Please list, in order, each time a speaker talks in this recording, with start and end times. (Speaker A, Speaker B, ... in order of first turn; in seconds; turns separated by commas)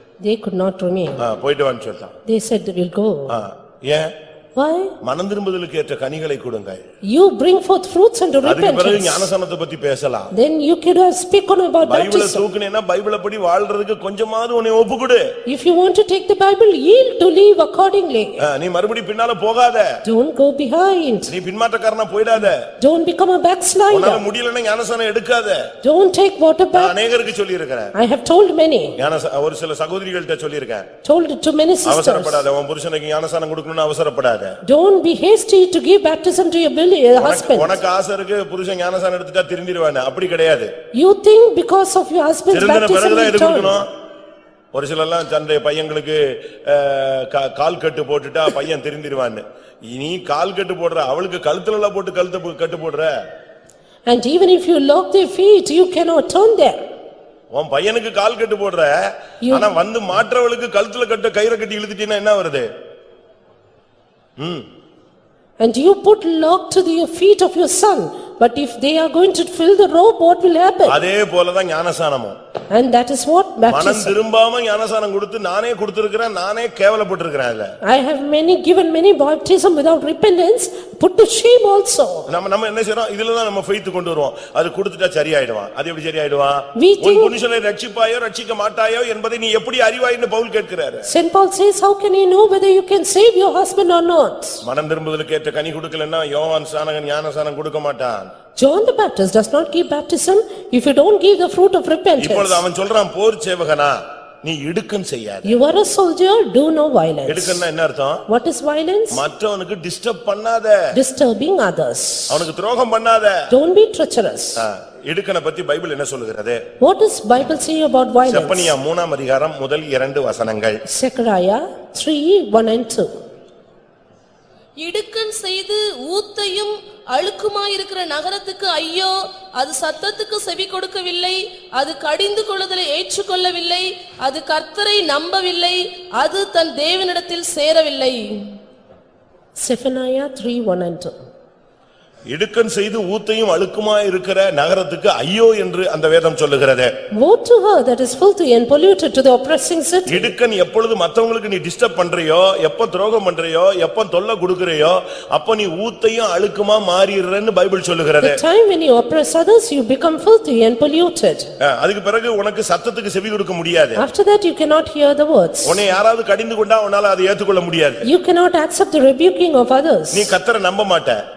Speaker A: 0.2-1.2, Speaker B: 1.2-2.1, Speaker A: 2.3-3.4, Speaker B: 3.3-4.1, Speaker A: 4.6-4.9, Speaker B: 5.0-6.8, Speaker A: 7.1-9.3, Speaker B: 8.4-10.3, Speaker A: 10.3-12.4, Speaker B: 11.8-15.2, Speaker A: 15.5-18.4, Speaker B: 18.4-20.0, Speaker A: 20.0-21.3, Speaker B: 21.3-22.7, Speaker A: 22.8-24.2, Speaker B: 23.9-25.6, Speaker A: 25.8-26.9, Speaker B: 26.7-27.9, Speaker A: 28.0-28.9, Speaker B: 29.0-30.9, Speaker A: 31.0-32.5, Speaker B: 31.9-34.6, Speaker A: 34.7-37.8, Speaker B: 37.2-40.7, Speaker A: 41.0-43.8, Speaker B: 42.5-43.9, Speaker B: 44.7-53.1, Speaker A: 54.1-56.8, Speaker B: 57.5-58.9, Speaker A: 59.4-59.7, Speaker B: 59.5-62.7, Speaker B: 64.4-64.7, Speaker A: 65.6-71.0, Speaker B: 70.9-72.3, Speaker A: 72.7-74.2, Speaker B: 73.7-77.7, Speaker A: 77.9-82.3, Speaker B: 82.3-91.1, Speaker A: 86.8-87.3, Speaker A: 91.1-94.6, Speaker B: 94.6-98.3, Speaker A: 98.6-102.6, Speaker B: 102.2-105.5, Speaker A: 105.5-107.6, Speaker B: 107.3-108.2, Speaker A: 108.3-109.2, Speaker B: 109.1-110.8, Speaker A: 110.9-112.4, Speaker B: 112.3-113.5, Speaker A: 113.5-114.6, Speaker B: 114.6-116.6, Speaker A: 116.8-118.7, Speaker B: 118.3-120.8, Speaker A: 120.9-123.1, Speaker C: 124.8-138.4, Speaker A: 139.6-141.2, Speaker B: 142.3-146.9, Speaker A: 147.2-150.3, Speaker B: 150.1-158.4, Speaker A: 158.2-161.5, Speaker B: 161.6-164.0, Speaker A: 164.0-165.8, Speaker B: 165.7-168.1, Speaker A: 168.0-170.3, Speaker B: 170.1-171.2